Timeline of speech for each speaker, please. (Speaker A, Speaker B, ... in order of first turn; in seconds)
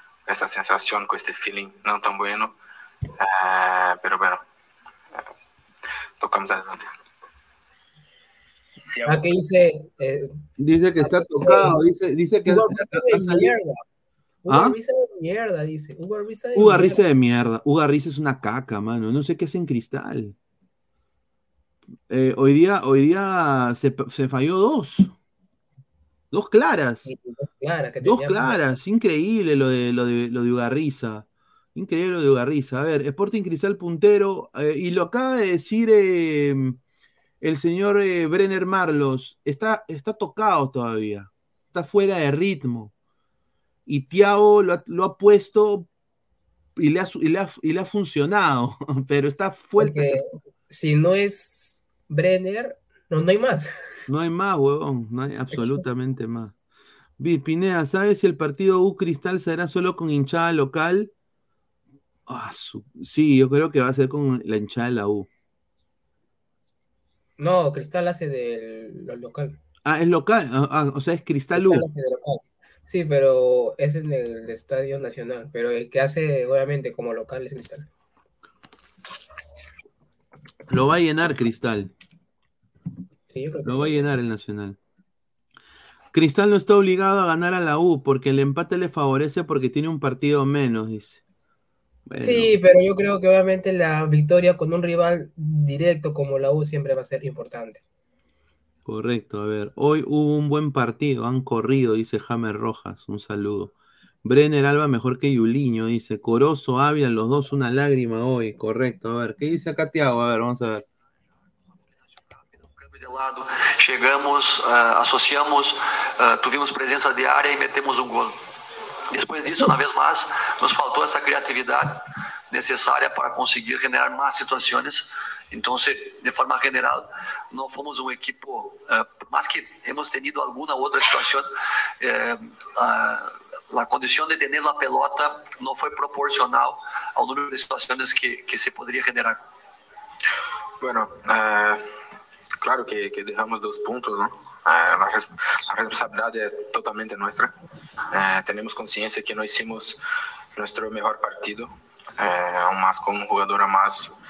Speaker A: 0.3-2.5, 3.2-4.4, 6.2-6.9, 8.9-9.2, 140.8-141.8, 142.6-147.5, 148.1-150.0, 150.6-154.1
Speaker B: 9.1-10.3, 11.0-11.7, 12.5-13.8, 14.4-17.0, 27.1-28.6, 49.8-53.7, 55.5-55.8, 67.4-69.6, 71.5-77.9, 83.3-84.1, 92.2-97.8
Speaker C: 10.6-13.5, 14.5-14.8, 16.5-20.3, 22.1-25.1, 26.3-27.1, 28.0-36.8, 37.4-42.9, 43.9-45.9, 46.8-50.4, 54.1-56.5, 57.2-61.1, 62.3-65.3, 69.8-71.9, 80.7-81.9, 83.6-84.8, 86.1-91.2, 92.1-92.5, 98.8-103.7, 104.2-110.8
Speaker D: 112.7-118.3, 119.1-139.4